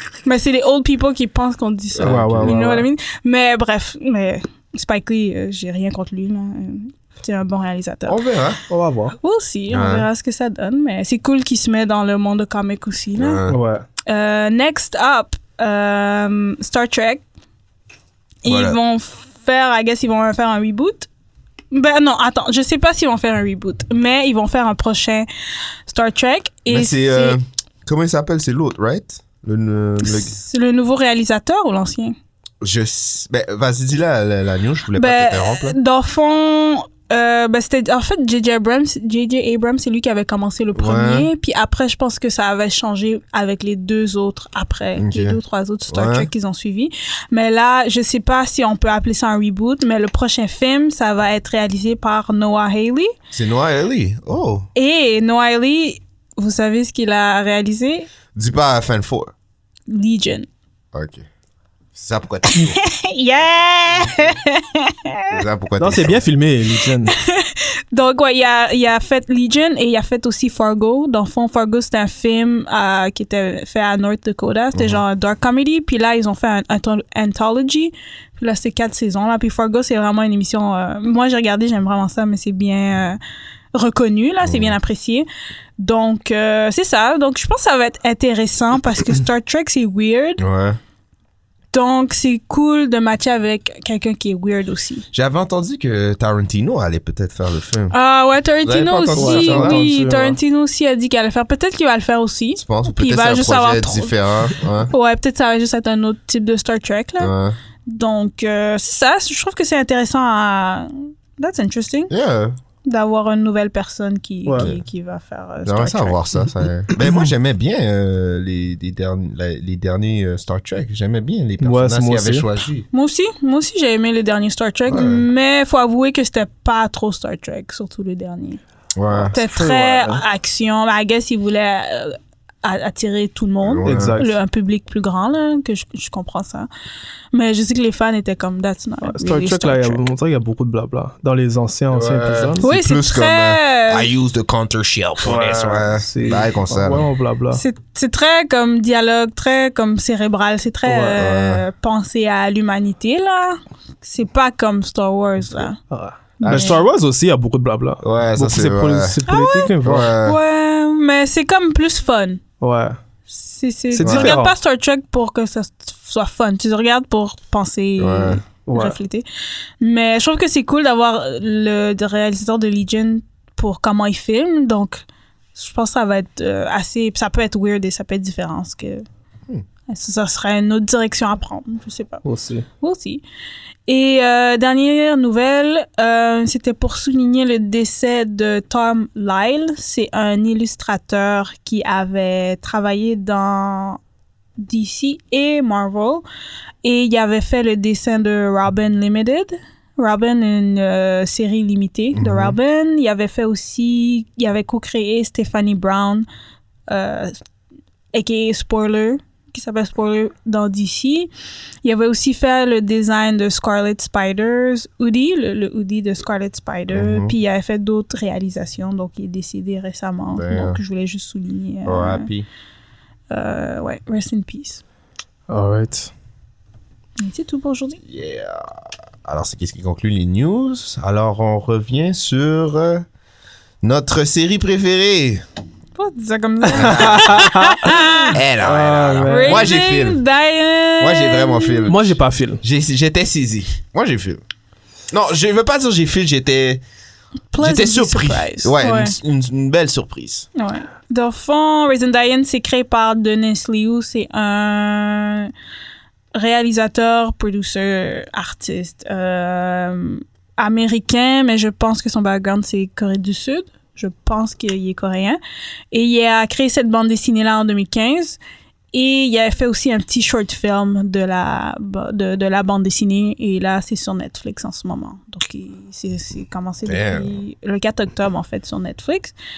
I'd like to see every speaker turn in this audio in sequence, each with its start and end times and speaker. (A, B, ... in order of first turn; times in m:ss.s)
0:00.2-0:08.2 A
0:01.9-0:02.6 B
0:02.0-0:02.9 C
0:08.1-0:08.6 B
0:08.7-0:09.2 C
0:09.2-0:13.4 A
0:09.7-0:10.1 B
0:13.2-0:13.6 B
0:13.5-0:13.8 C
0:14.1-0:17.2 A
0:18.4-0:21.1 A
0:18.5-0:18.8 B
0:21.7-0:25.3 A
0:25.9-0:27.4 A
0:26.7-0:30.3 B
0:30.0-0:32.2 A
0:32.6-0:35.8 B
0:35.0-0:53.1 A
0:40.8-0:41.3 B
0:45.0-0:46.3 B
0:53.3-0:54.7 B
0:54.8-0:58.1 A
0:58.3-0:59.3 B
0:59.9-1:00.5 A
1:00.9-1:01.3 B
1:01.9-1:02.8 B
1:02.5-1:05.4 A
1:03.9-1:04.3 B
1:05.3-1:06.2 B
1:05.8-1:07.1 C
1:07.1-1:23.2 A
1:14.7-1:15.0 B
1:23.7-1:25.3 A
1:24.4-1:24.8 B
1:25.8-1:30.4 A
1:30.4-1:30.8 B
1:31.7-1:35.1 A
1:35.1-1:38.0 B
1:37.9-1:44.1 A
1:38.6-1:39.8 B
1:39.2-1:40.4 C
1:42.6-1:44.9 B
1:44.9-1:47.3 A
1:47.2-1:47.6 B
1:47.9-1:52.1 A
1:52.1-1:52.6 B
1:52.8-1:56.2 A
1:55.6-2:02.9 B
2:01.6-2:02.5 C
2:02.9-2:08.6 A
2:04.9-2:05.2 B
2:09.0-2:09.3 B
2:09.3-2:16.7 A
2:09.3-2:10.2 C
2:13.6-2:14.2 B
2:13.8-2:14.4 C
2:17.3-2:20.0 A
2:19.1-2:22.6 C
2:21.9-2:27.1 B
2:22.6-2:24.1 A
2:25.2-2:27.6 C
2:27.5-2:35.8 A
2:30.8-2:31.2 C
2:31.2-2:31.6 B
2:35.9-2:40.1 C
2:36.4-2:36.8 A
2:36.4-2:36.7 B
2:38.0-2:39.2 B
2:39.3-2:42.4 A
2:39.8-2:40.4 B
2:42.6-2:43.0 C
2:43.3-2:49.3 A
2:43.9-2:44.6 C
2:44.0-2:44.3 B
2:48.0-2:48.4 B
2:48.7-2:49.0 C
2:49.8-2:59.1 A
2:59.9-3:02.2 A
3:02.2-3:02.7 C
3:02.8-3:03.2 A
3:03.9-3:14.0 A
3:14.6-3:16.2 A
3:16.8-3:26.3 A
3:22.1-3:22.6 B
3:26.9-3:27.4 A
3:28.1-3:31.3 A
3:31.8-3:42.3 A
3:36.9-3:37.4 B
3:40.4-3:40.8 B
3:41.8-3:42.5 B
3:43.3-3:44.8 A
3:45.5-3:46.1 C
3:47.2-3:48.0 A
3:48.0-3:48.7 B
3:49.2-3:53.0 B
3:53.8-3:55.4 B
3:56.0-3:58.4 A
3:56.7-3:57.4 B
3:56.8-3:57.9 C
3:58.3-4:00.2 B
3:58.6-3:59.7 C
3:59.3-4:01.9 A
4:01.0-4:04.4 B
4:01.9-4:02.6 C
4:05.1-4:06.8 B
4:07.5-4:09.2 A
4:07.6-4:10.5 B
4:10.6-4:15.5 A
4:16.4-4:25.4 A
4:25.9-4:28.4 A
4:28.9-4:39.3 A
4:36.9-4:37.3 B